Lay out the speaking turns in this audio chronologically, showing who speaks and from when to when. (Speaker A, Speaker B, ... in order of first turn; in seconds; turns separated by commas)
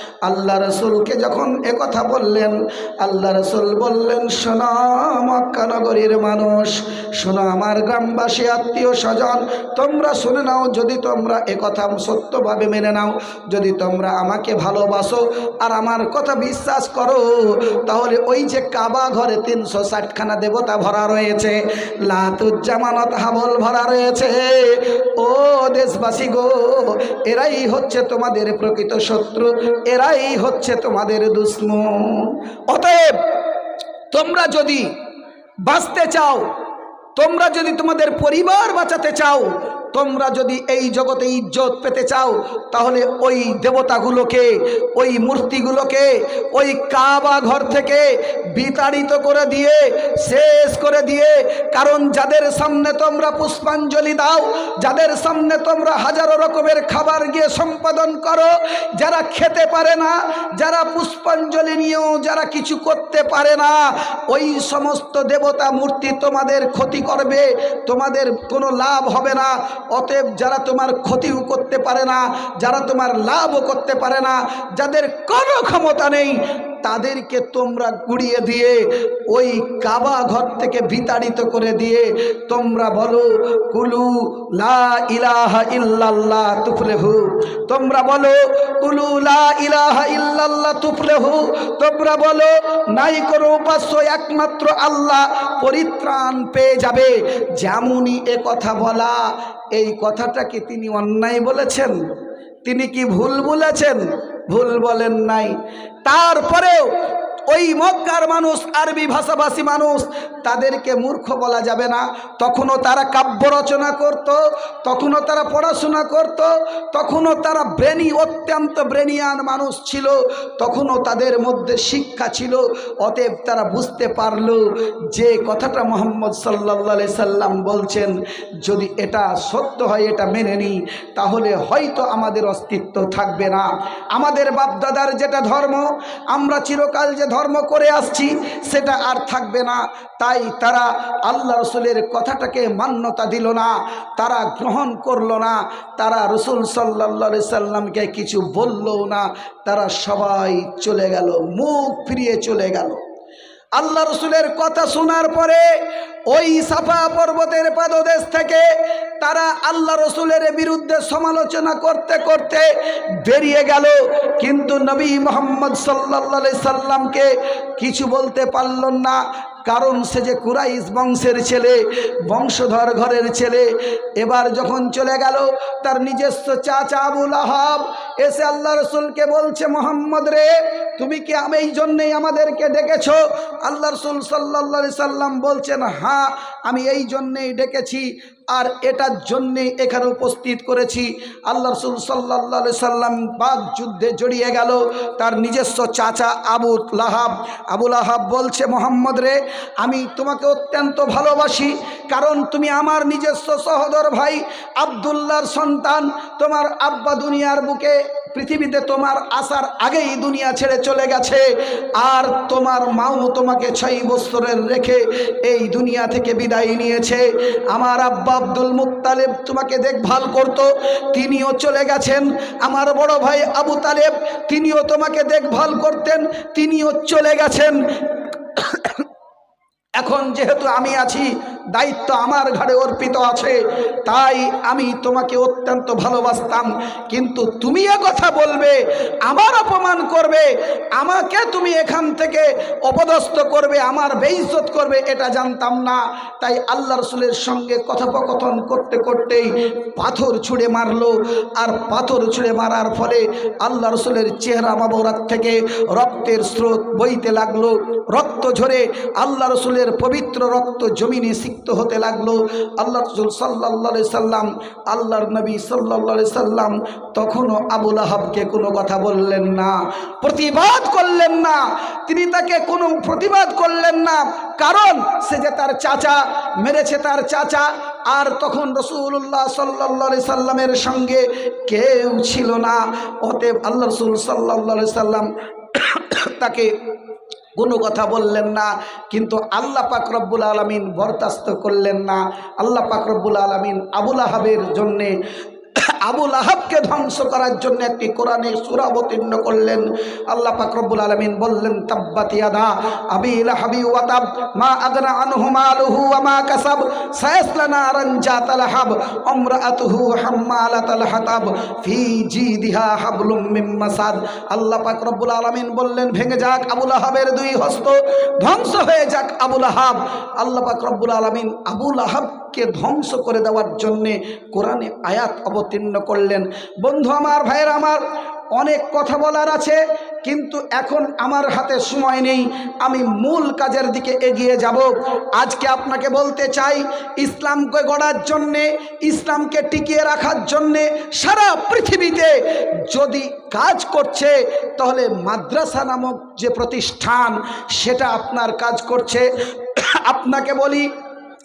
Speaker A: 0.2-33.4, Speaker A: 34.1-34.9, Speaker A: 35.6-36.5, Speaker A: 37.1-102.0, Speaker A: 102.6-106.9, Speaker A: 107.5-153.0, Speaker A: 153.8-229.0, Speaker A: 230.0-286.7, Speaker A: 287.6-295.1, Speaker A: 295.8-328.0, Speaker A: 328.6-350.9